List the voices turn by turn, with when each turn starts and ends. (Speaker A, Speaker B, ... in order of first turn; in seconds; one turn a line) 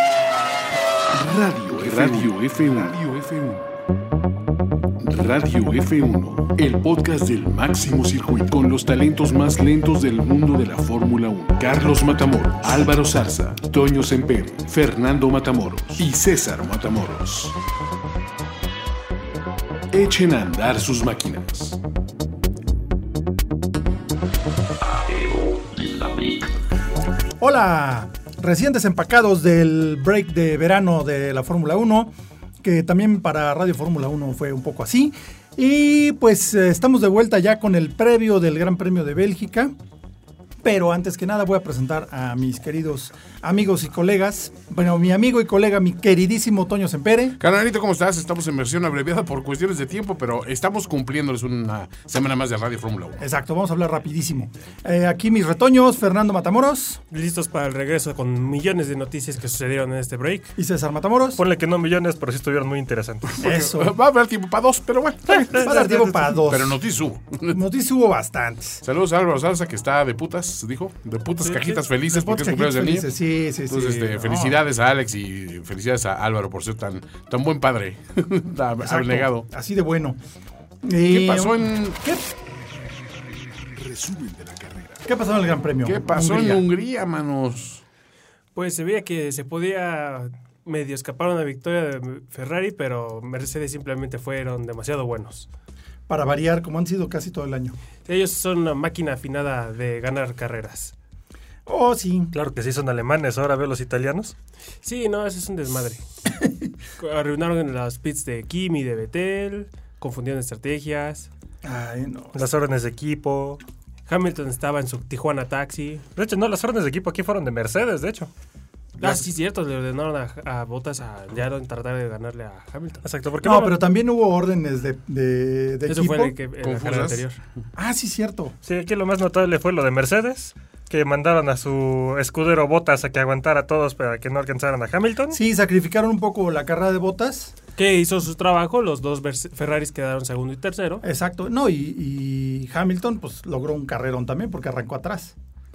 Speaker A: 1.1-3.6
Speaker B: 1.7-3.0
Speaker A: 5.0-17.6
Speaker A: 19.9-21.8
Speaker C: 27.4-39.7
Speaker C: 40.6-47.4
Speaker B: 47.4-53.2
Speaker C: 53.2-57.0
Speaker D: 57.1-60.5
Speaker C: 60.5-61.4
Speaker E: 61.4-63.3
Speaker B: 63.3-65.7
Speaker C: 63.4-63.9
Speaker E: 65.3-66.3
Speaker C: 65.5-66.8
Speaker B: 66.4-67.6
Speaker C: 67.5-68.8
Speaker B: 68.8-73.1
Speaker D: 71.4-71.8
Speaker C: 72.0-74.6
Speaker B: 73.7-79.5
Speaker C: 78.8-80.2
Speaker C: 80.8-82.3
Speaker B: 81.0-82.0
Speaker A: 83.7-85.0
Speaker C: 85.0-86.7
Speaker B: 85.8-87.8
Speaker D: 88.5-95.5
Speaker C: 96.1-97.8
Speaker D: 98.0-100.9
Speaker C: 101.7-102.3
Speaker E: 102.3-104.3
Speaker D: 104.8-106.0
Speaker D: 107.0-111.3
Speaker C: 111.6-112.4
Speaker E: 112.3-113.6
Speaker D: 114.1-116.0
Speaker E: 116.2-118.3
Speaker D: 119.0-123.0
Speaker E: 123.0-123.8
Speaker C: 123.4-126.3
Speaker D: 125.9-127.4
Speaker B: 126.6-127.2
Speaker C: 127.8-128.5
Speaker E: 128.6-135.4
Speaker C: 135.3-137.5
Speaker D: 137.8-141.0
Speaker C: 141.0-145.3